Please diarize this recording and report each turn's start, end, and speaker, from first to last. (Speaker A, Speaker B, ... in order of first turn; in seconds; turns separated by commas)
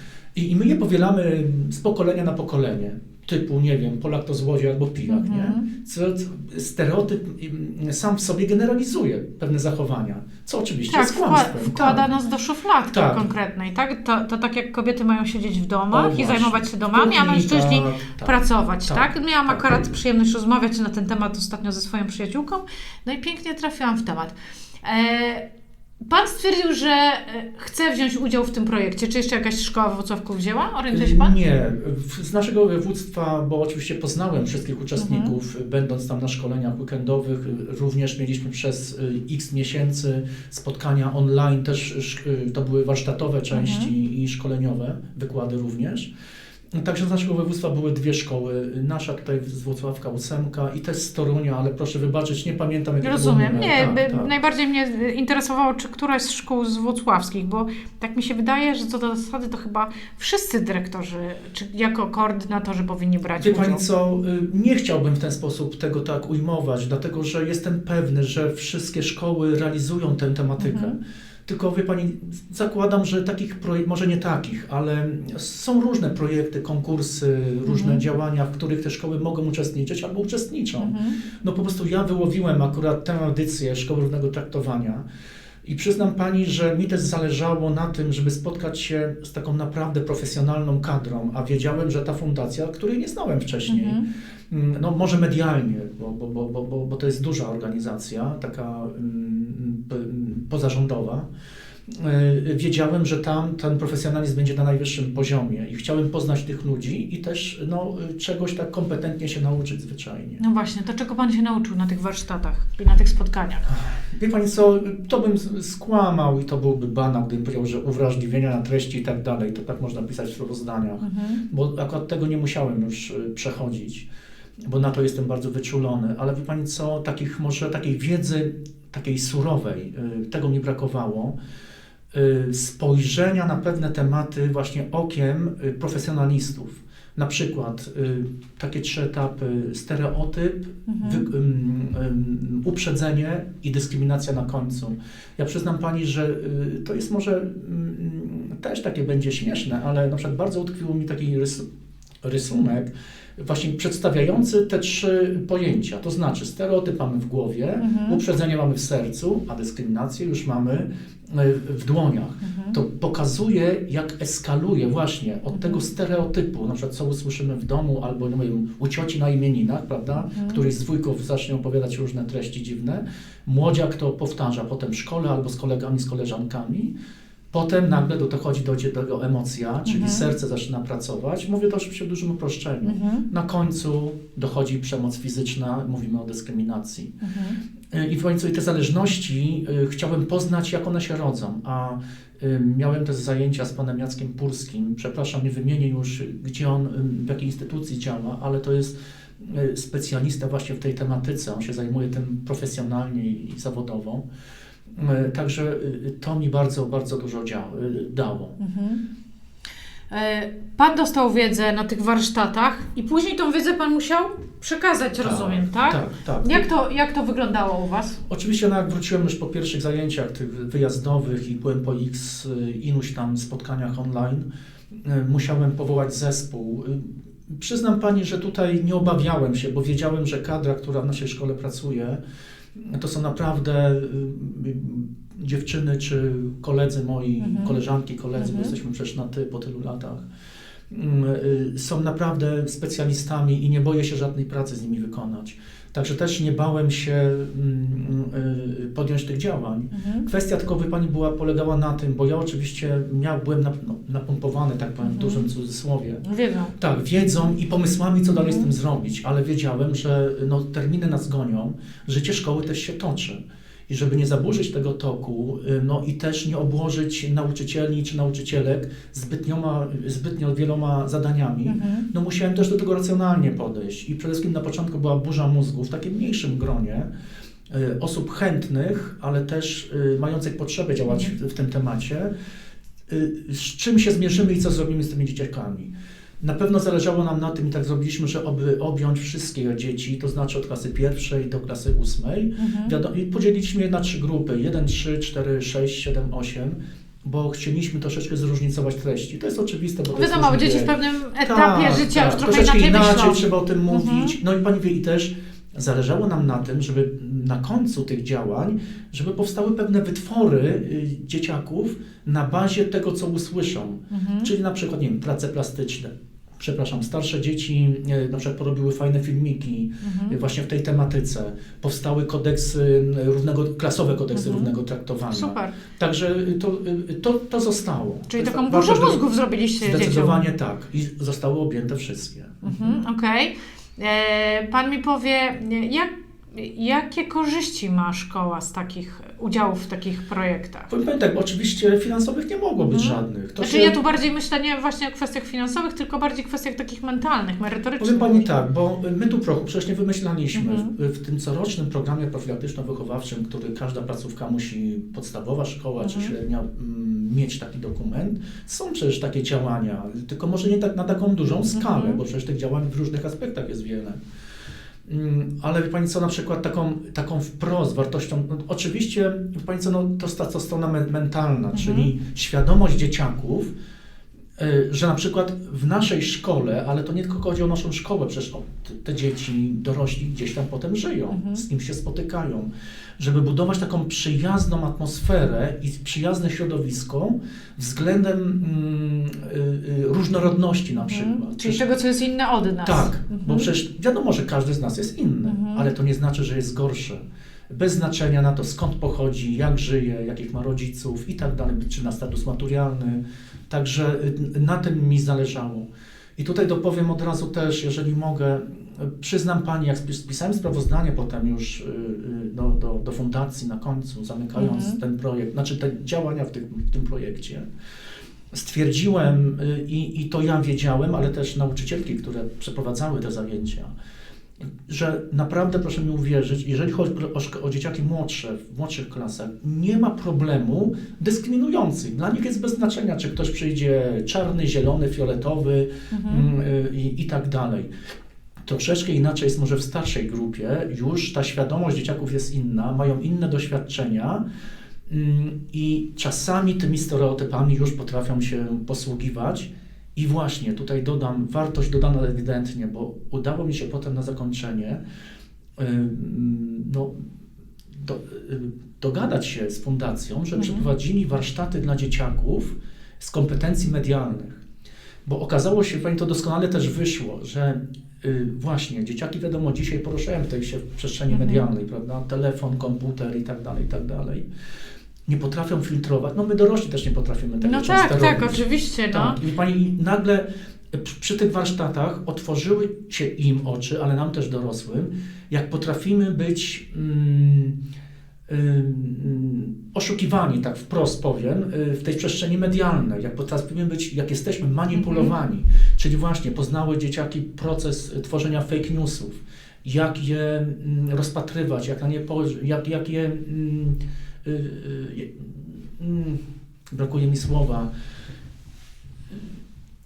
Speaker A: 0.3-12.1, Speaker B: 5.1-5.7, Speaker B: 10.9-25.4, Speaker A: 12.9-13.3, Speaker A: 15.9-19.9, Speaker B: 26.0-31.4, Speaker A: 30.9-46.1, Speaker B: 35.0-35.3, Speaker B: 43.5-43.9, Speaker A: 46.7-54.3, Speaker B: 53.0-63.8, Speaker A: 63.4-85.0, Speaker B: 70.6-70.9, Speaker B: 77.6-78.0, Speaker B: 80.8-81.2, Speaker A: 85.6-101.3, Speaker B: 93.7-94.0, Speaker A: 101.9-110.4, Speaker B: 110.4-113.7, Speaker A: 113.7-124.1, Speaker B: 121.0-121.4, Speaker A: 124.6-131.3, Speaker A: 132.1-151.6, Speaker B: 140.9-141.3, Speaker A: 152.2-176.9, Speaker B: 157.8-158.2, Speaker B: 162.4-162.8, Speaker B: 165.5-165.8, Speaker B: 170.2-170.7, Speaker A: 177.5-187.1, Speaker B: 179.8-180.2, Speaker B: 182.8-183.2, Speaker B: 187.2-187.6, Speaker A: 187.9-204.2, Speaker A: 204.9-208.5, Speaker B: 208.6-209.0, Speaker B: 210.1-218.2, Speaker A: 215.2-216.7, Speaker A: 218.2-224.4, Speaker A: 225.0-232.2, Speaker A: 232.8-240.3, Speaker B: 237.4-237.8, Speaker B: 238.4-238.7, Speaker A: 240.9-256.2, Speaker B: 249.9-250.3, Speaker B: 255.0-255.4, Speaker B: 256.2-256.7, Speaker A: 256.8-277.1, Speaker B: 258.3-258.7, Speaker B: 271.7-272.1, Speaker A: 277.7-282.3, Speaker A: 283.1-329.2, Speaker B: 292.6-292.9, Speaker B: 300.1-304.4, Speaker B: 314.1-314.5, Speaker B: 320.0-320.4, Speaker B: 324.3-324.7, Speaker B: 325.3-325.8, Speaker B: 328.3-330.5, Speaker A: 329.8-333.0, Speaker B: 332.6-340.9, Speaker A: 340.9-344.0, Speaker B: 342.8-348.5, Speaker A: 348.0-364.2, Speaker B: 350.5-350.9, Speaker B: 356.0-356.3, Speaker B: 361.7-362.2, Speaker A: 365.0-373.7, Speaker B: 371.7-372.1, Speaker A: 374.6-391.8, Speaker B: 381.3-381.6, Speaker B: 391.1-393.7, Speaker A: 392.8-417.6, Speaker B: 395.4-395.9, Speaker B: 414.5-415.0, Speaker A: 418.5-423.9, Speaker A: 424.9-437.9, Speaker B: 436.1-436.4, Speaker A: 438.6-444.4, Speaker A: 445.1-455.0, Speaker A: 455.8-457.2, Speaker A: 457.9-464.6, Speaker B: 460.6-460.8, Speaker A: 465.2-474.5, Speaker B: 471.3-471.7, Speaker A: 475.3-487.8, Speaker B: 477.6-479.4, Speaker A: 488.5-506.4, Speaker B: 494.9-495.3, Speaker A: 506.9-507.9